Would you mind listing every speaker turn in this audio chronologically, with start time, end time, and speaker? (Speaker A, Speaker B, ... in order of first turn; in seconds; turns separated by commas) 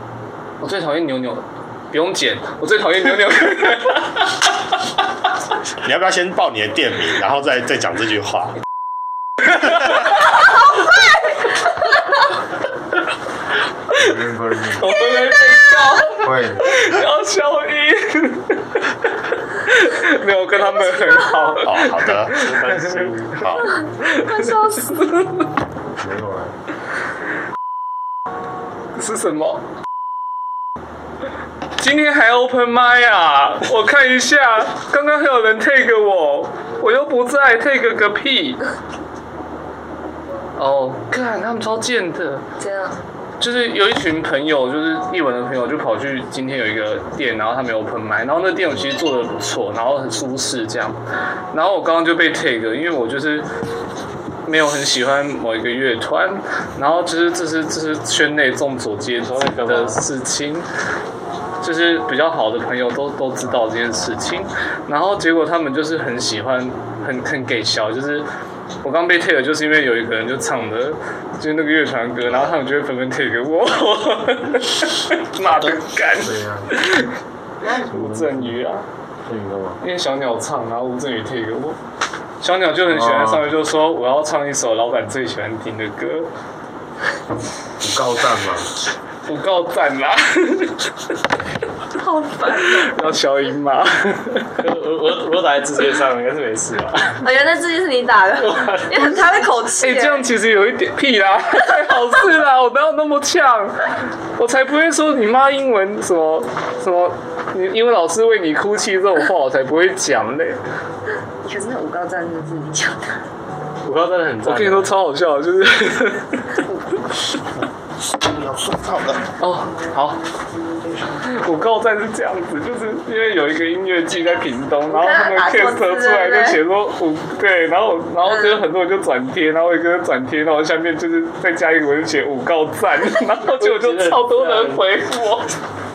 Speaker A: 0.6-4.3, Speaker B: 5.8-8.6, Speaker C: 13.9-15.0, Speaker A: 14.8-25.5, Speaker D: 15.1-16.0, Speaker C: 16.1-17.0, Speaker D: 20.7-21.5, Speaker B: 21.6-22.4, Speaker E: 22.3-23.5, Speaker B: 23.4-23.7, Speaker D: 23.6-25.1, Speaker C: 26.0-26.5, Speaker A: 28.9-29.6, Speaker A: 31.8-38.6, Speaker A: 40.6-42.4, Speaker D: 42.6-43.0, Speaker A: 43.4-51.0, Speaker A: 51.5-53.5, Speaker A: 54.5-60.6, Speaker E: 59.2-60.0, Speaker A: 61.6-68.2, Speaker A: 68.8-77.1, Speaker B: 72.2-72.6, Speaker B: 75.4-75.8, Speaker C: 76.1-76.8, Speaker C: 77.7-78.5, Speaker A: 77.7-78.8, Speaker C: 79.2-79.8, Speaker A: 79.8-81.8, Speaker A: 82.4-86.3, Speaker C: 82.8-83.4, Speaker C: 87.8-88.7, Speaker A: 89.2-91.1, Speaker D: 92.0-92.9, Speaker A: 92.6-94.6, Speaker E: 94.6-97.2, Speaker D: 97.2-100.3, Speaker E: 98.4-99.2, Speaker A: 99.8-103.8, Speaker A: 104.4-110.6, Speaker D: 111.4-113.2, Speaker E: 113.8-114.9, Speaker A: 114.4-116.6, Speaker B: 118.3-119.2, Speaker A: 119.4-120.2, Speaker A: 121.2-135.5, Speaker D: 124.9-126.6, Speaker D: 128.3-128.6, Speaker E: 133.6-134.8